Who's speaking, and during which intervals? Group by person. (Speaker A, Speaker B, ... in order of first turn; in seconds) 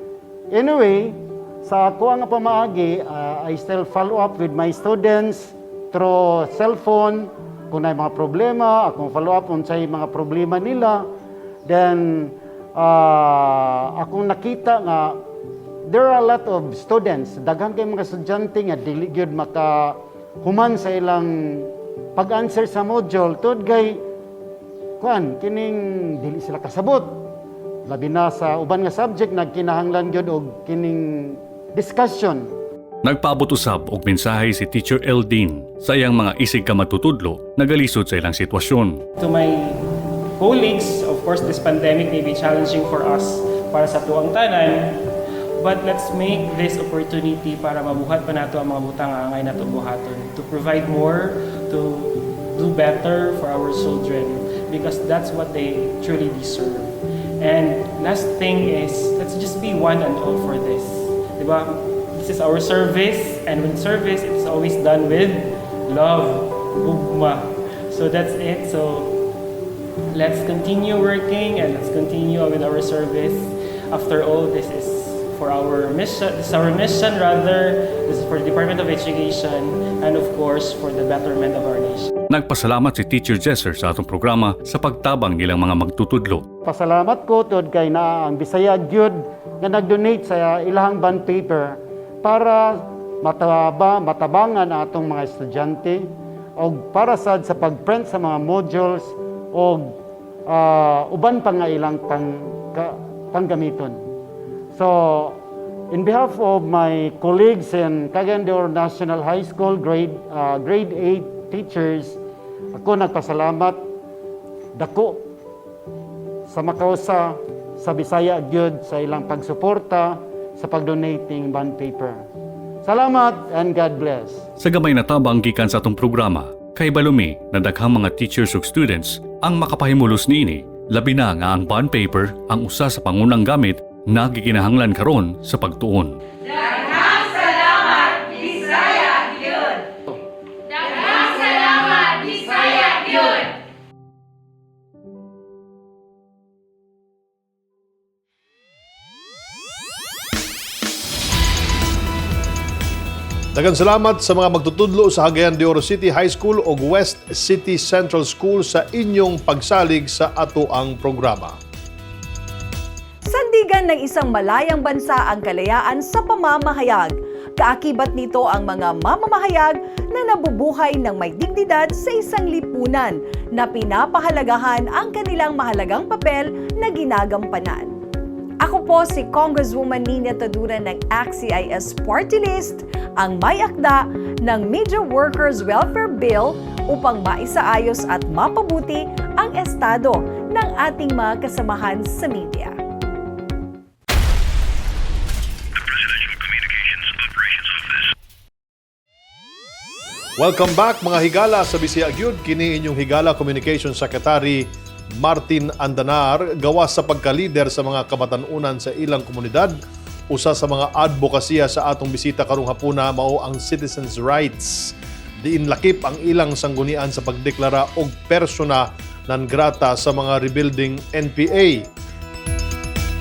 Speaker A: 0.5-11.1, 11.6-15.2, 15.8-24.0, 25.0-27.3, 27.9-32.5, 86.6-100.0, 100.5-104.0, 104.7-105.4, 105.9-112.2, 112.7-113.8, 114.8-115.3, 116.5-122.2, 122.8-124.4
Speaker B: 33.0-39.0, 82.3-86.4, 124.6-136.2
Speaker C: 39.2-69.2, 70.1-82.1
Speaker D: 153.5-161.6, 200.4-209.8, 210.3-221.9
Speaker E: 163.2-177.9, 178.6-192.7